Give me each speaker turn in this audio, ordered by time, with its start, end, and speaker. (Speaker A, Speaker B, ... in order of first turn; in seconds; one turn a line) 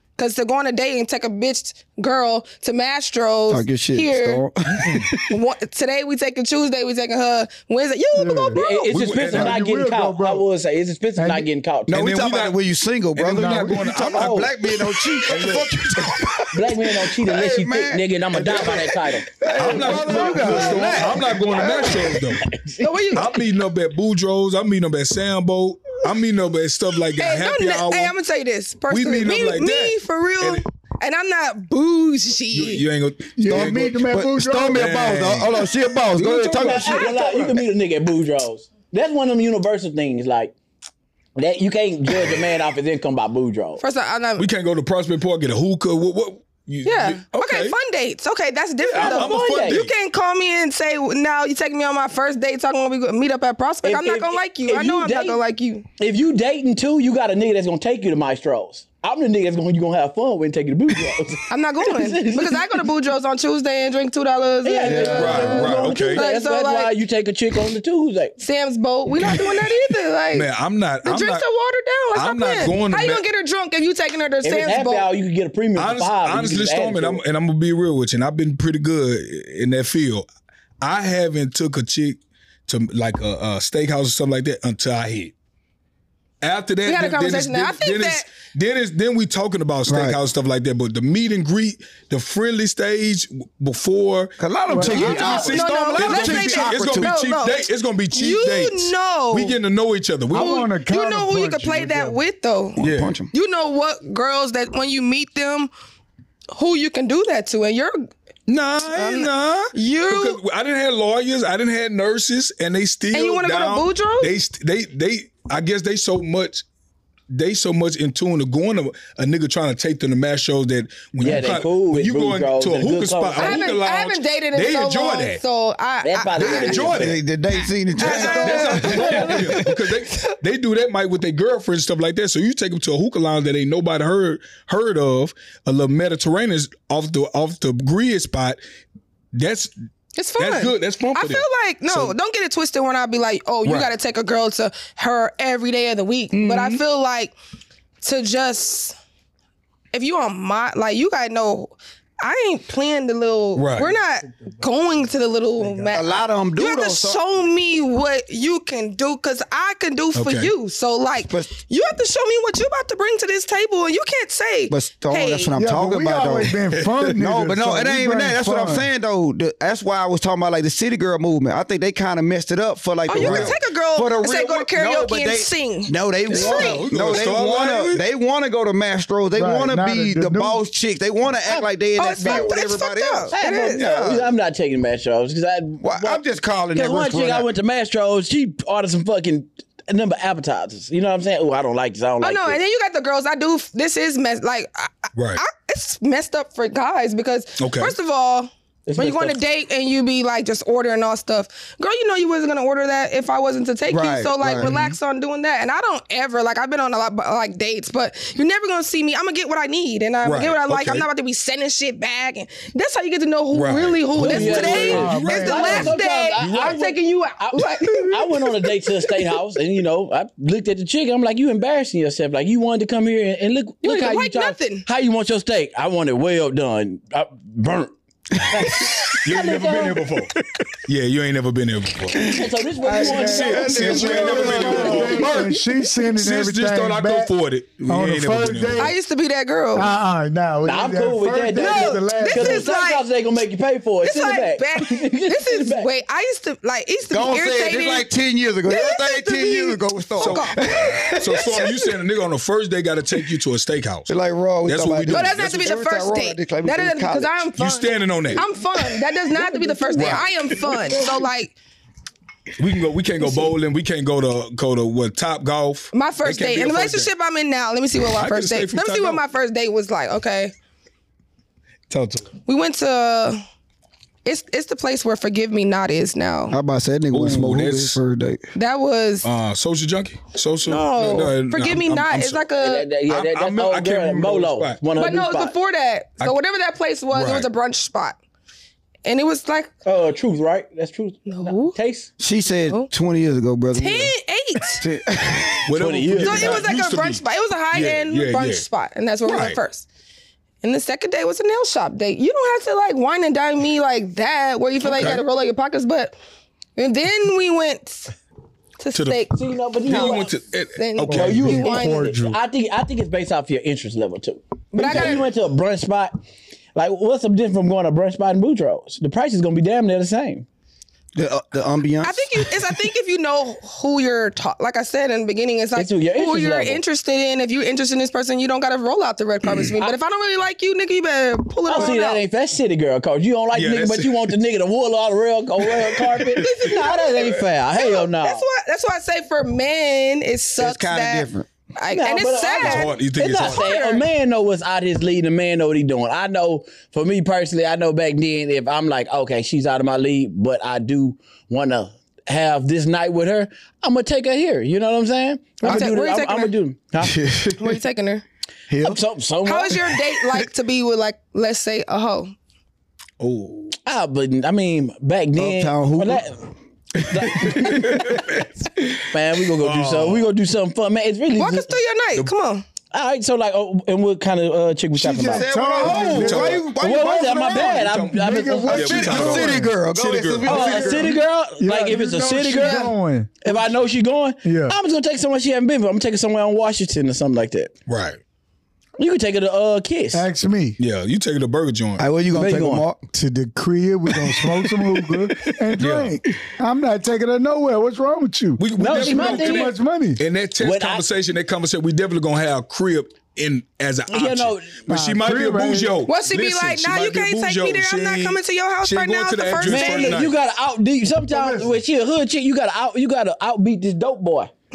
Speaker A: 0.2-4.4
Speaker B: 3.5-5.2
Speaker C: 4.7-5.1
Speaker A: 5.2-8.9
Speaker D: 8.2-8.6
Speaker E: 8.5-12.0
Speaker C: 8.9-9.6
Speaker D: 9.2-10.4
Speaker D: 11.2-11.5
Speaker B: 11.9-22.1
Speaker C: 11.9-12.6
Speaker C: 13.2-16.3
Speaker D: 13.4-13.8
Speaker E: 14.0-14.5
Speaker E: 16.5-21.0
Speaker C: 19.5-22.4
Speaker D: 19.6-20.8
Speaker A: 20.4-21.0
Speaker E: 21.6-22.9
Speaker A: 22.8-23.3
Speaker C: 23.1-28.1
Speaker A: 27.2-32.8
Speaker C: 28.9-30.6
Speaker C: 32.5-33.9
Speaker D: 33.4-35.2
Speaker B: 33.5-37.1
Speaker C: 34.7-37.4
Speaker E: 36.5-40.5
Speaker D: 37.2-37.5
Speaker E: 41.4-43.8
Speaker A: 43.8-44.5
Speaker C: 44.4-47.7
Speaker A: 46.8-55.9
Speaker C: 48.9-49.9
Speaker E: 49.0-49.8
Speaker E: 53.8-55.4
Speaker E: 56.0-62.8
Speaker A: 61.5-67.0
Speaker E: 64.6-68.3
Speaker B: 64.8-65.4
Speaker C: 65.0-66.2
Speaker A: 68.4-70.5
Speaker C: 69.2-69.6
Speaker C: 70.3-71.4
Speaker A: 71.0-75.1
Speaker C: 72.1-73.2
Speaker E: 74.4-77.2
Speaker C: 75.8-80.2
Speaker C: 80.8-85.3
Speaker C: 86.4-100.6
Speaker A: 86.8-88.3
Speaker B: 89.9-90.2
Speaker B: 94.4-97.1
Speaker D: 94.7-95.5
Speaker A: 94.9-99.6
Speaker D: 100.3-102.2
Speaker A: 100.3-102.8
Speaker B: 102.8-103.3
Speaker C: 102.8-103.2
Speaker A: 103.3-105.7
Speaker A: 106.5-108.1
Speaker C: 108.5-116.6
Speaker A: 108.9-110.4
Speaker A: 113.1-114.3
Speaker C: 117.3-125.4
Speaker E: 121.2-123.7
Speaker A: 123.4-127.0
Speaker E: 126.0-127.1
Speaker C: 126.4-127.2
Speaker B: 126.9-129.5
Speaker A: 128.0-130.3
Speaker C: 128.0-138.6
Speaker E: 128.8-129.6
Speaker C: 139.3-139.7
Speaker A: 140.2-147.3
Speaker C: 140.4-142.1
Speaker C: 143.6-143.9
Speaker C: 146.3-146.8
Speaker A: 148.0-148.9
Speaker A: 149.9-165.5
Speaker C: 153.6-153.9
Speaker D: 154.3-154.6
Speaker D: 155.6-155.9
Speaker B: 155.9-157.2
Speaker C: 160.1-160.5
Speaker B: 164.7-166.5
Speaker D: 165.6-168.9
Speaker C: 166.7-167.0
Speaker B: 167.2-184.3
Speaker A: 173.1-176.9
Speaker C: 173.2-173.5
Speaker C: 176.3-178.0
Speaker D: 179.3-180.6
Speaker A: 182.0-183.9
Speaker E: 182.2-182.5
Speaker E: 183.3-186.2
Speaker B: 185.8-187.5
Speaker E: 186.7-192.6
Speaker A: 192.2-219.3
Speaker C: 195.1-195.4
Speaker C: 197.6-197.9
Speaker E: 198.9-199.4
Speaker B: 203.9-204.7
Speaker C: 204.6-205.0
Speaker C: 210.2-211.1
Speaker C: 213.5-216.8
Speaker E: 214.2-227.9
Speaker D: 214.8-215.9
Speaker A: 223.8-224.9
Speaker E: 228.5-230.1
Speaker C: 228.6-232.4
Speaker E: 232.2-235.3
Speaker D: 232.8-237.3
Speaker B: 232.9-235.4
Speaker C: 233.0-235.6
Speaker C: 236.1-238.9
Speaker D: 237.9-238.9
Speaker A: 238.8-239.9
Speaker D: 239.7-242.7
Speaker E: 240.6-245.9
Speaker A: 241.5-243.1
Speaker A: 244.0-248.1
Speaker B: 247.1-251.8
Speaker A: 248.7-251.7
Speaker C: 250.2-250.6
Speaker C: 251.1-254.1
Speaker B: 254.1-257.4
Speaker C: 254.7-255.7
Speaker A: 255.1-261.5
Speaker C: 257.6-258.5
Speaker E: 259.3-261.0
Speaker C: 259.9-261.0
Speaker C: 262.6-267.1
Speaker A: 265.9-270.5
Speaker C: 268.0-269.2
Speaker C: 271.9-272.3
Speaker A: 272.5-273.4
Speaker A: 274.2-276.6
Speaker B: 276.5-278.4
Speaker C: 277.1-278.0
Speaker A: 278.5-279.3
Speaker C: 279.2-282.5
Speaker A: 280.7-282.9
Speaker E: 282.6-285.5
Speaker C: 283.0-284.8
Speaker A: 284.9-288.2
Speaker C: 287.1-287.5
Speaker A: 289.0-289.7
Speaker E: 289.8-292.1
Speaker A: 291.3-291.8
Speaker B: 292.2-294.1
Speaker A: 293.8-294.8
Speaker B: 294.8-295.7
Speaker C: 295.6-298.6
Speaker E: 295.8-296.7
Speaker A: 296.2-299.9
Speaker C: 299.2-299.6
Speaker A: 300.6-306.1
Speaker C: 304.8-305.2
Speaker A: 306.8-308.1
Speaker A: 308.8-312.1
Speaker C: 308.9-309.3
Speaker E: 309.3-310.3
Speaker C: 309.8-311.6
Speaker D: 311.1-312.4
Speaker E: 311.1-316.1
Speaker A: 314.7-315.3
Speaker E: 316.7-320.4
Speaker B: 321.1-322.5
Speaker A: 322.0-332.2
Speaker E: 325.8-326.8
Speaker E: 331.7-338.4
Speaker C: 333.5-334.3
Speaker C: 335.8-336.7
Speaker A: 336.4-344.0
Speaker B: 340.6-341.5
Speaker E: 341.9-357.2
Speaker C: 342.6-343.7
Speaker A: 355.6-356.6
Speaker B: 357.0-357.7
Speaker A: 357.6-358.2
Speaker B: 358.7-359.0
Speaker E: 358.8-359.8
Speaker A: 359.4-362.3
Speaker C: 363.2-363.8
Speaker E: 363.8-366.4
Speaker B: 365.4-366.3
Speaker B: 367.0-368.2
Speaker E: 367.1-368.1
Speaker C: 367.5-369.0
Speaker E: 369.1-371.7
Speaker C: 369.6-370.3
Speaker A: 371.4-372.6
Speaker E: 372.9-379.2
Speaker D: 375.0-376.7
Speaker B: 375.1-377.8
Speaker C: 375.9-376.7
Speaker D: 377.4-379.8
Speaker C: 377.4-381.0
Speaker B: 378.7-381.2
Speaker E: 380.4-382.9
Speaker D: 380.4-383.7
Speaker A: 382.6-382.9
Speaker E: 383.4-387.7
Speaker D: 384.4-384.8
Speaker C: 387.9-388.2
Speaker E: 389.0-390.3
Speaker D: 390.1-390.8
Speaker C: 390.8-392.1
Speaker B: 392.0-393.0
Speaker E: 392.3-392.8
Speaker D: 393.1-400.2
Speaker C: 395.5-396.2
Speaker C: 398.6-410.4
Speaker E: 398.8-399.7
Speaker E: 400.6-401.0
Speaker E: 404.1-404.9
Speaker D: 404.9-406.0
Speaker A: 406.1-410.3
Speaker E: 409.6-414.5
Speaker D: 411.3-411.8